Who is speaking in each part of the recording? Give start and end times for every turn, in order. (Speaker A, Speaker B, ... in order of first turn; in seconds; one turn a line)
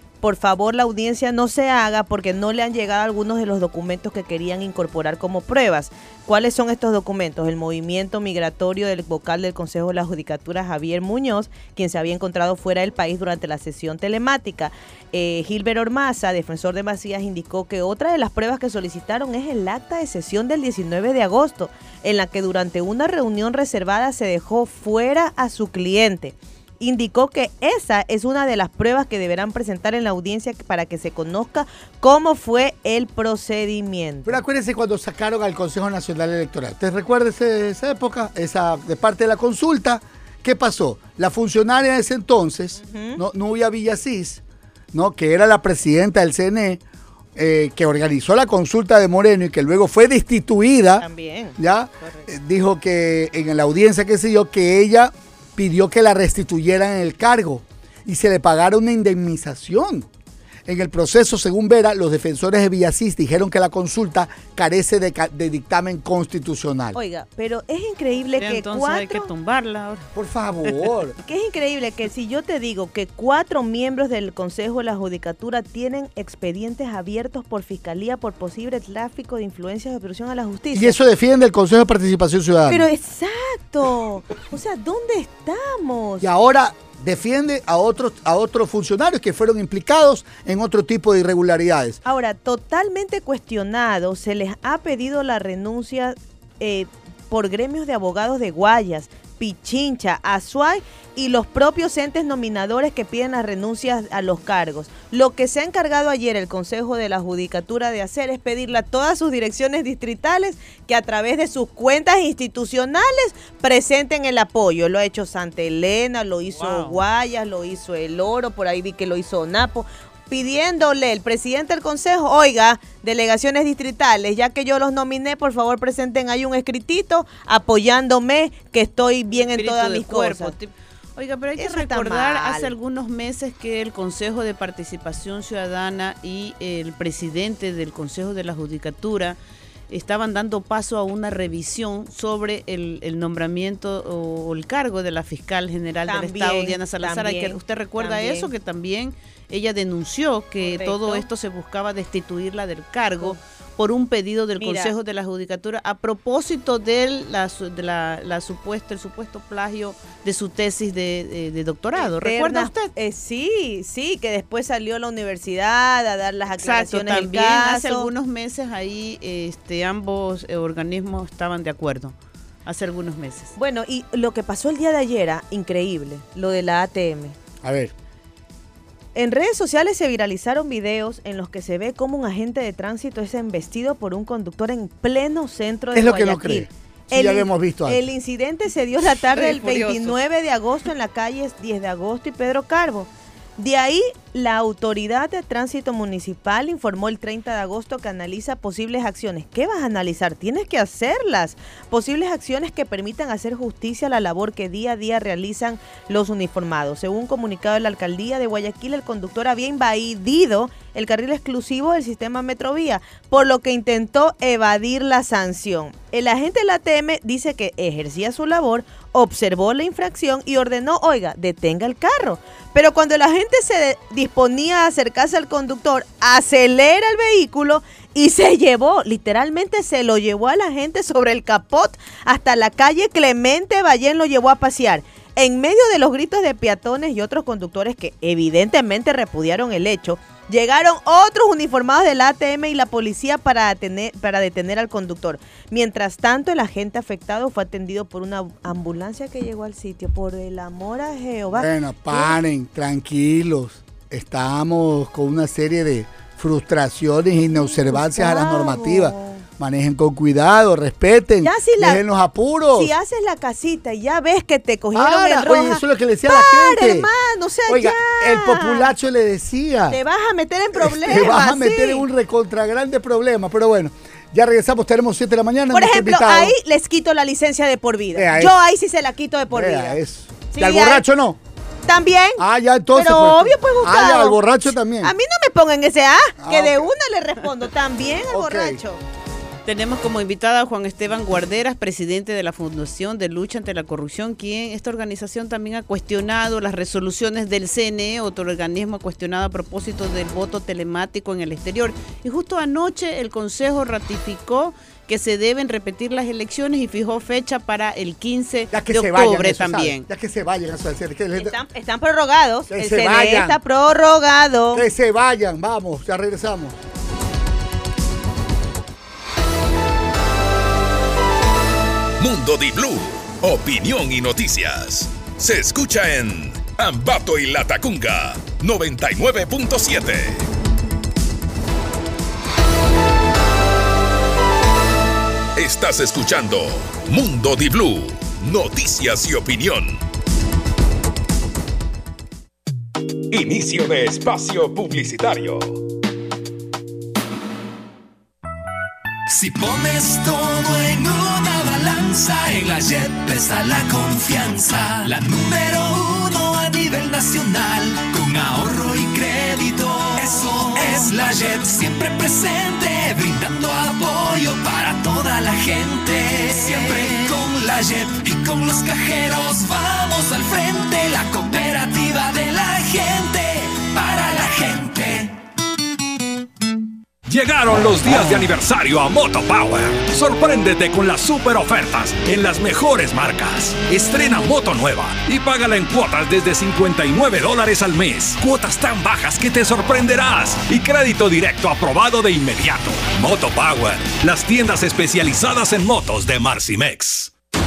Speaker A: 0.2-34.4
Speaker B: 34.2-46.8
Speaker A: 42.8-43.2
Speaker B: 47.4-51.0
Speaker A: 51.0-52.3
Speaker B: 51.6-60.1
Speaker B: 60.7-67.0
Speaker A: 66.9-69.3
Speaker C: 68.4-70.1
Speaker B: 70.1-71.2
Speaker A: 71.2-81.0
Speaker B: 80.7-82.8
Speaker A: 82.7-86.2
Speaker B: 86.2-92.0
Speaker A: 92.0-130.5
Speaker C: 116.5-117.0
Speaker C: 129.5-139.4
Speaker A: 131.6-132.7
Speaker C: 139.9-162.9
Speaker A: 146.1-148.5
Speaker A: 150.6-151.2
Speaker A: 154.6-154.9
Speaker A: 161.9-168.1
Speaker C: 166.6-172.1
Speaker C: 172.7-173.5
Speaker A: 173.6-177.3
Speaker B: 177.6-177.9
Speaker A: 179.1-252.4
Speaker B: 185.9-188.0
Speaker C: 189.3-190.2
Speaker B: 251.6-262.9
Speaker A: 257.5-259.4
Speaker A: 261.4-262.0
Speaker A: 262.7-268.9
Speaker B: 264.9-267.1
Speaker B: 267.7-270.0
Speaker A: 269.9-272.0
Speaker B: 270.7-276.5
Speaker A: 275.7-280.0
Speaker B: 278.1-278.6
Speaker B: 279.5-281.4
Speaker A: 280.5-281.0
Speaker A: 281.9-282.4
Speaker B: 282.4-285.1
Speaker A: 282.9-289.0
Speaker B: 286.4-286.9
Speaker B: 288.3-288.8
Speaker C: 289.6-310.1
Speaker B: 308.7-311.6
Speaker A: 311.4-314.8
Speaker B: 312.7-313.6
Speaker B: 314.7-316.8
Speaker D: 322.2-330.4
Speaker D: 335.6-340.0
Speaker D: 343.3-345.8
Speaker E: 349.3-375.3
Speaker F: 377.3-397.3